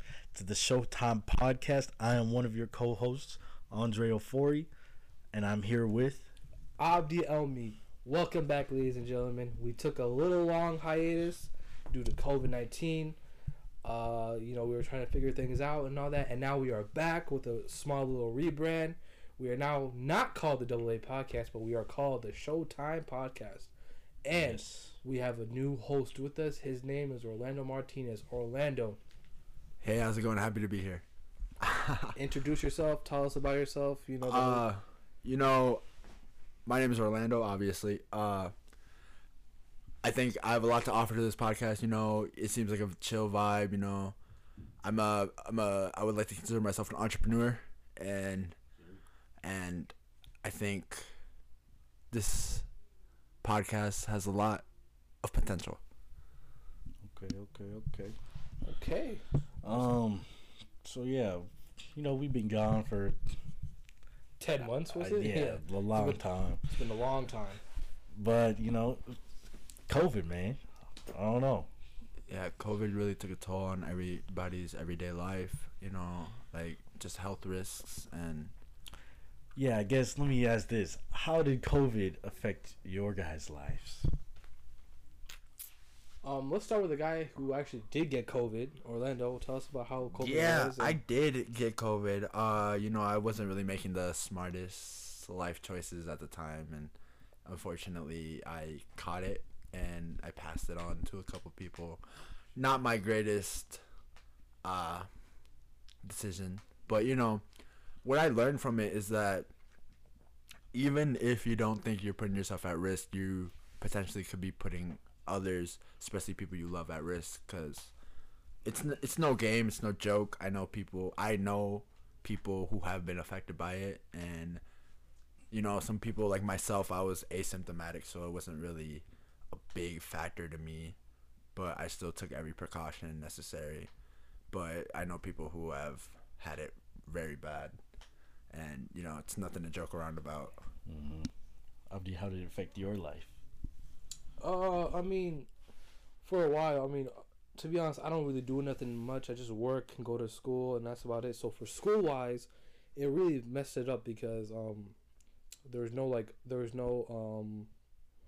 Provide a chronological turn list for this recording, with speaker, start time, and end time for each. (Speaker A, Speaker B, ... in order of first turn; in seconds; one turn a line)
Speaker A: 0.3-4.7
Speaker A: 5.3-6.3
Speaker B: 6.8-13.2
Speaker B: 13.8-23.7
Speaker B: 24.2-29.0
Speaker A: 24.3-24.9
Speaker C: 29.8-31.0
Speaker C: 31.6-32.2
Speaker B: 32.2-34.6
Speaker C: 34.2-35.8
Speaker C: 36.7-38.5
Speaker C: 40.0-44.1
Speaker C: 44.8-48.6
Speaker C: 49.4-49.9
Speaker C: 50.4-51.1
Speaker C: 52.1-52.7
Speaker C: 53.4-54.6
Speaker C: 55.2-55.8
Speaker A: 57.0-58.2
Speaker B: 58.6-59.8
Speaker A: 59.6-60.3
Speaker A: 60.8-63.2
Speaker B: 64.4-67.6
Speaker A: 64.7-66.6
Speaker A: 68.1-69.2
Speaker A: 69.9-71.7
Speaker C: 72.3-78.5
Speaker A: 79.5-84.1
Speaker B: 86.2-91.0
Speaker C: 90.1-96.9
Speaker C: 97.5-102.0
Speaker C: 102.5-103.8
Speaker C: 104.6-105.1
Speaker C: 106.0-107.4
Speaker C: 108.0-109.5
Speaker C: 110.7-117.9
Speaker C: 118.7-124.6
Speaker C: 125.5-131.0
Speaker C: 131.6-133.9
Speaker C: 134.5-137.8
Speaker C: 138.5-140.6
Speaker A: 140.9-141.3
Speaker A: 141.9-143.3
Speaker B: 144.4-145.5
Speaker B: 146.2-154.9
Speaker B: 155.7-157.7